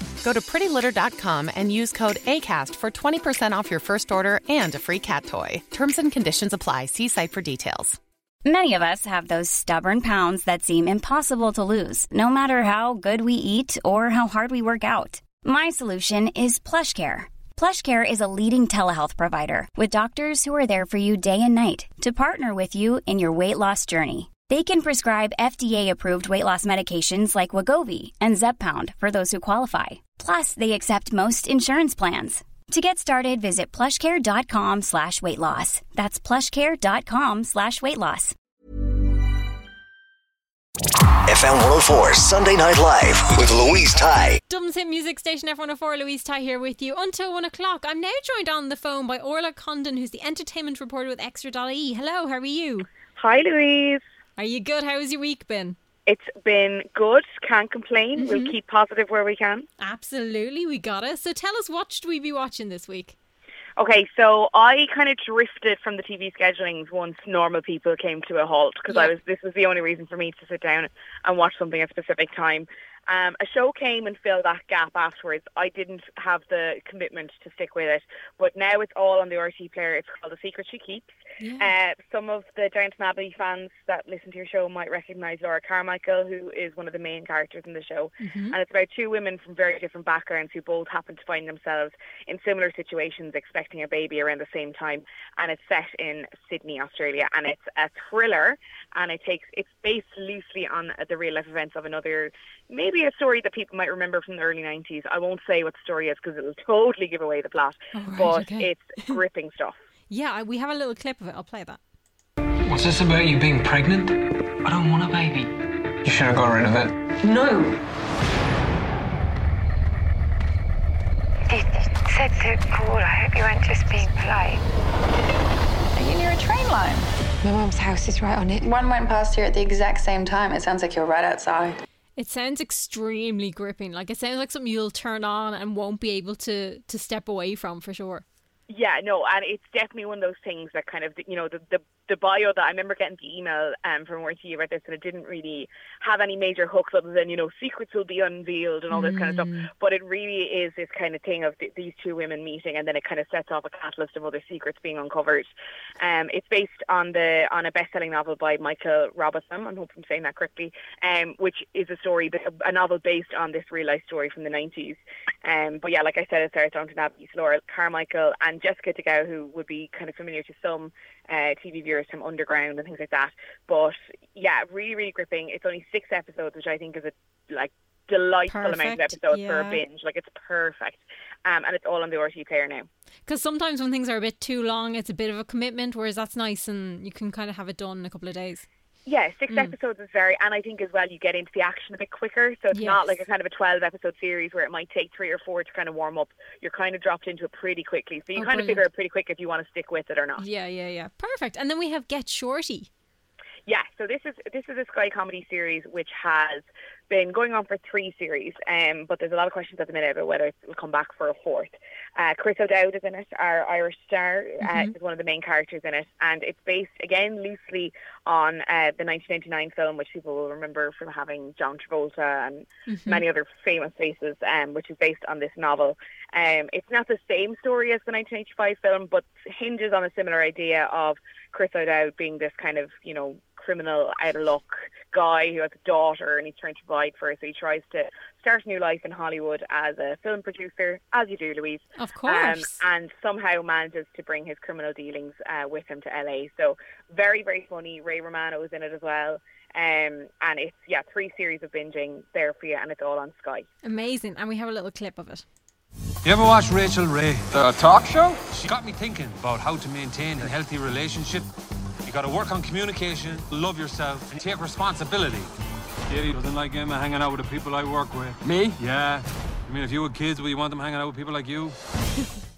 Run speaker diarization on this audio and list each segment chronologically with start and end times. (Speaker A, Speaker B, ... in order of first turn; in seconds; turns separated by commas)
Speaker A: 0.2-8.0, Speaker B: 8.4-38.3, Speaker C: 41.2-44.4, Speaker D: 44.5-52.9, Speaker E: 53.1-54.0, Speaker D: 54.4-55.8, Speaker E: 56.0-59.6, Speaker D: 58.2-58.5, Speaker D: 59.8-63.1, Speaker E: 63.8-109.8, Speaker D: 81.4-81.7, Speaker D: 88.2-88.5, Speaker D: 107.9-109.2, Speaker D: 110.1-111.8, Speaker F: 112.6-115.5, Speaker F: 116.0-116.9, Speaker G: 121.5-124.6, Speaker H: 125.9-127.1, Speaker G: 127.4-128.6, Speaker H: 128.7-131.8, Speaker D: 132.2-138.2, Speaker E: 138.7-182.9, Speaker D: 148.9-149.7, Speaker D: 178.5-179.8, Speaker D: 183.2-188.7, Speaker E: 189.1-200.4, Speaker D: 189.5-189.7, Speaker D: 192.7-193.1, Speaker D: 198.3-198.8, Speaker D: 200.4-202.9, Speaker E: 203.7-253.7, Speaker D: 214.6-214.9, Speaker D: 222.9-223.2, Speaker D: 241.9-242.8, Speaker D: 253.8-255.4, Speaker I: 256.2-261.5, Speaker I: 262.0-265.5, Speaker I: 266.1-271.8